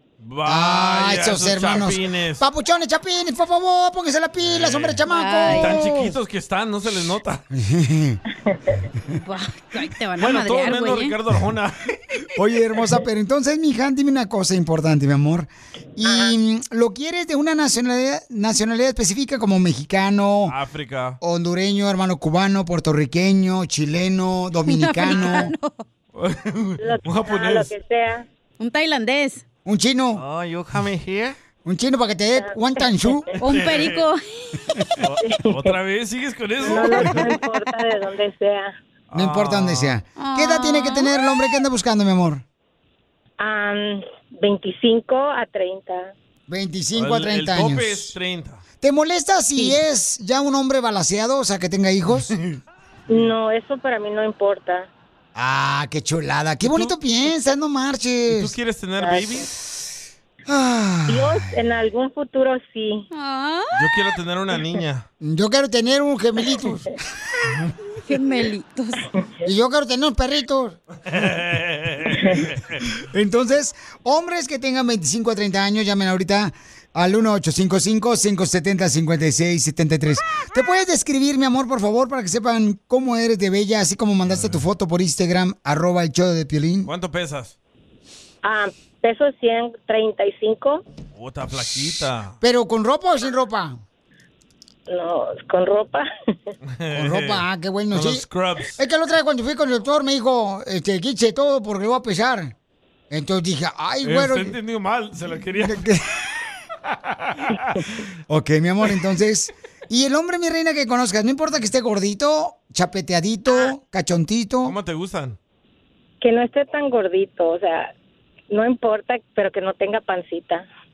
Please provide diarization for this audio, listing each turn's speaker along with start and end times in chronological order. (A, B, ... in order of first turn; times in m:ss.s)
0:00.2-0:02.4 A
0:00.4-0:06.2 B
0:04.4-0:07.4 A
0:05.1-0:05.8 C
0:07.5-0:08.2 B
0:09.2-0:11.1 C
0:10.2-0:11.9 A
0:12.4-0:20.6 B
0:16.0-0:16.3 D
0:20.4-0:21.2 A
0:21.2-0:25.5 B
0:24.7-0:25.8 C
0:26.2-0:27.7 A
0:26.8-0:28.3 D
0:28.6-0:29.4 C
0:29.6-0:30.2 B
0:30.2-0:31.4 A
0:31.6-0:33.3 B
0:32.4-0:32.8 D
0:33.4-0:34.2 C
0:33.4-0:34.0 A
0:35.0-0:37.3 A
0:35.2-0:35.7 D
0:36.6-0:38.7 D
0:36.7-0:37.5 C
0:39.1-0:40.0 A
0:39.2-0:42.4 B
0:40.2-0:41.1 C
0:43.4-0:46.1 D
0:46.5-0:48.1 B
0:47.0-0:48.6 A
0:48.8-0:52.3 B
0:53.1-0:54.9 D
0:55.4-0:58.5 B
0:56.6-0:56.9 A
0:58.3-0:59.5 A
0:59.0-0:59.4 D
1:00.5-1:01.4 B
1:01.1-1:03.1 D
1:03.1-1:03.7 C
1:03.7-1:05.1 A
1:05.2-1:07.0 B
1:08.0-1:09.0 C
1:09.4-1:10.8 B
1:11.1-1:12.4 A
1:12.1-1:12.4 D
1:13.1-1:26.9 B
1:24.3-1:24.6 A
1:26.8-1:27.6 A
1:28.4-1:30.8 D
1:31.2-1:32.4 A
1:32.4-1:33.8 B
1:34.9-1:36.1 D
1:36.8-1:38.8 A
1:36.9-1:38.2 B
1:38.8-1:42.5 B
1:43.1-1:44.6 B
1:44.0-1:45.9 A
1:45.6-1:46.0 B
1:46.9-1:47.8 A
1:48.3-1:54.7 B
1:54.6-1:55.4 A
1:56.2-1:57.9 D
1:58.5-2:00.7 D